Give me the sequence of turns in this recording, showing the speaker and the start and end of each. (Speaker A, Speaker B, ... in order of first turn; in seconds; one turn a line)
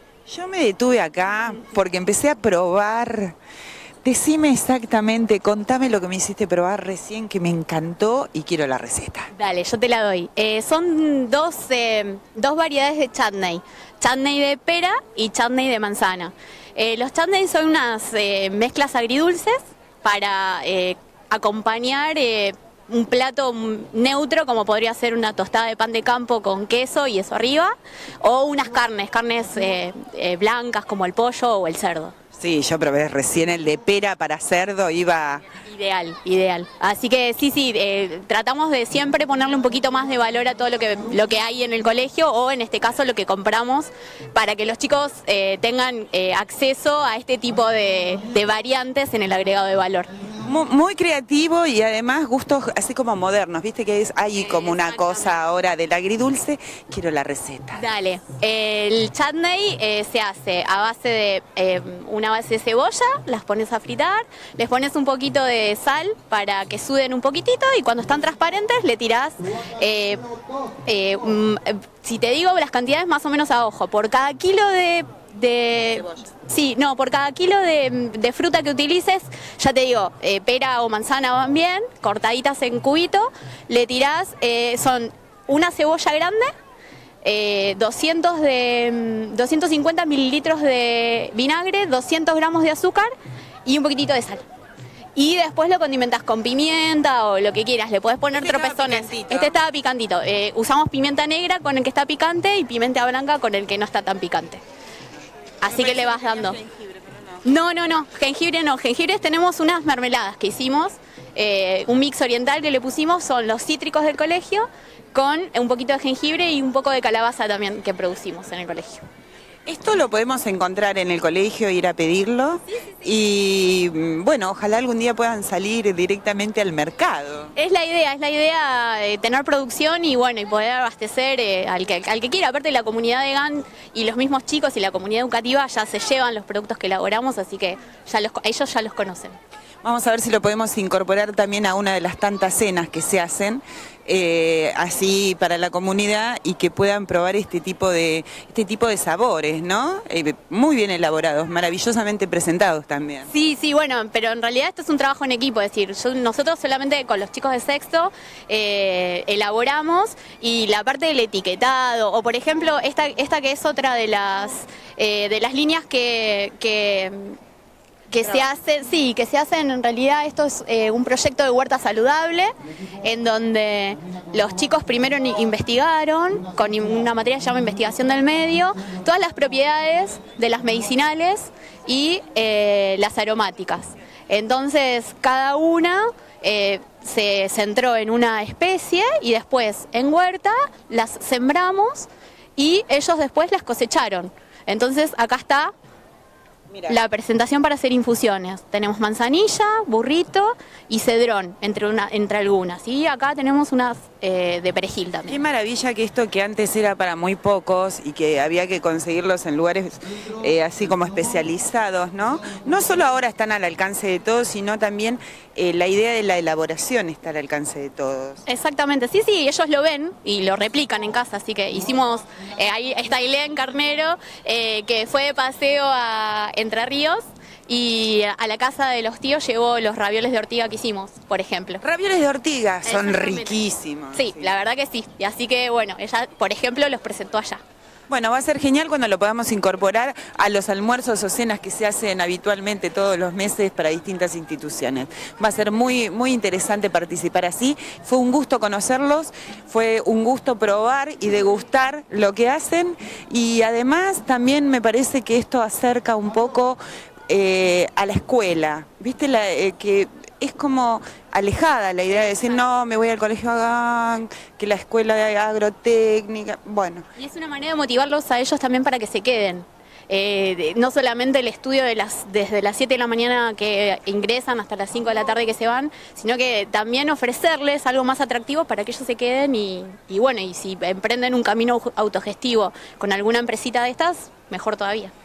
Speaker A: 0.3-3.4
Speaker A: 4.0-9.3
Speaker B: 9.3-32.1
Speaker A: 32.4-35.5
Speaker B: 35.5-50.1
Speaker A: 50.4-57.8
Speaker B: 54.4-55.4
Speaker B: 57.8-86.5
Speaker B: 87.2-93.1
Speaker B: 93.6-94.4
Speaker B: 95.2-104.6
Speaker A: 98.3-99.6
Speaker B: 105.6-106.6
Speaker A: 105.6-107.4
Speaker B: 107.4-119.0
Speaker A: 119.7-127.5
Speaker B: 122.8-123.0
Speaker B: 127.5-139.4
Speaker A: 139.8-153.3
Speaker B: 153.3-167.4
Speaker B: 168.1-195.7
Speaker A: 196.7-197.0
Speaker B: 196.9-205.4
Speaker A: 205.3-218.4
Speaker B: 218.4-231.8
Speaker A: 231.8-234.5
Speaker B: 232.8-233.6
Speaker B: 234.1-237.6
Speaker A: 238.1-267.0
Speaker B: 262.1-262.6
Speaker B: 267.2-285.1